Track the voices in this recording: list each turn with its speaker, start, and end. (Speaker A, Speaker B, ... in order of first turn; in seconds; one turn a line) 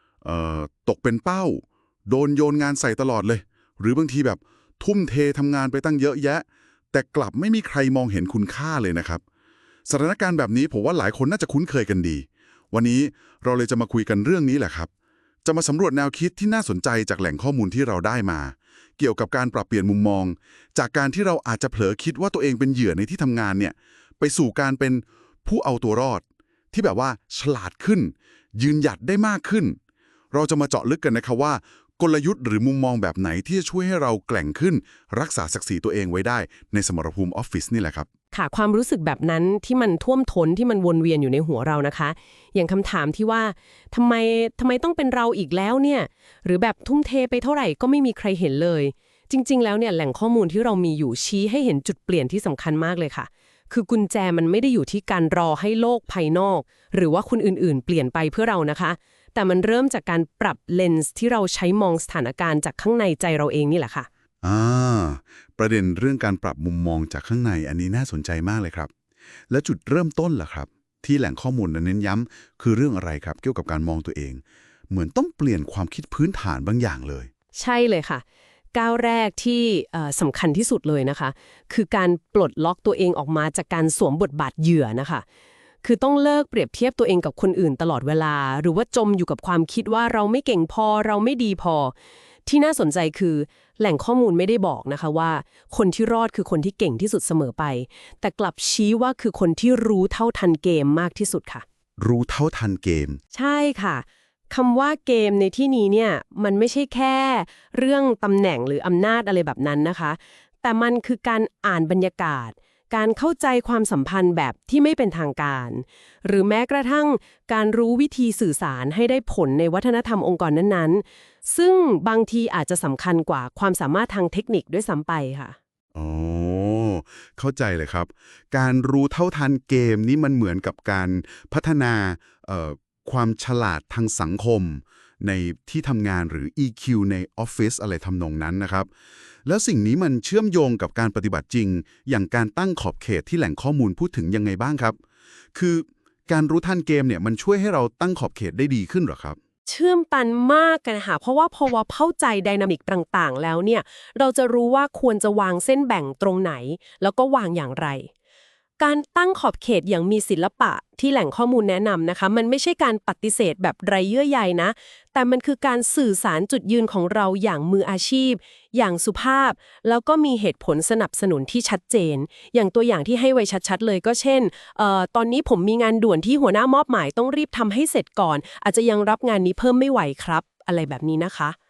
Speaker A: 0.2-9.2
Speaker A: 9.9-14.9
Speaker A: 15.4-29.8
Speaker A: 30.3-38.1
Speaker B: 38.3-64.1
Speaker A: 64.4-68.9
Speaker A: 69.5-77.3
Speaker B: 77.5-78.2
Speaker B: 78.7-85.2
Speaker B: 85.8-92.0
Speaker B: 92.5-101.6
Speaker A: 102.0-103.2
Speaker B: 103.3-125.6
Speaker A: 126.0-138.9
Speaker A: 139.4-145.0
Speaker A: 145.5-149.4
Speaker B: 149.7-158.1
Speaker B: 158.8-181.6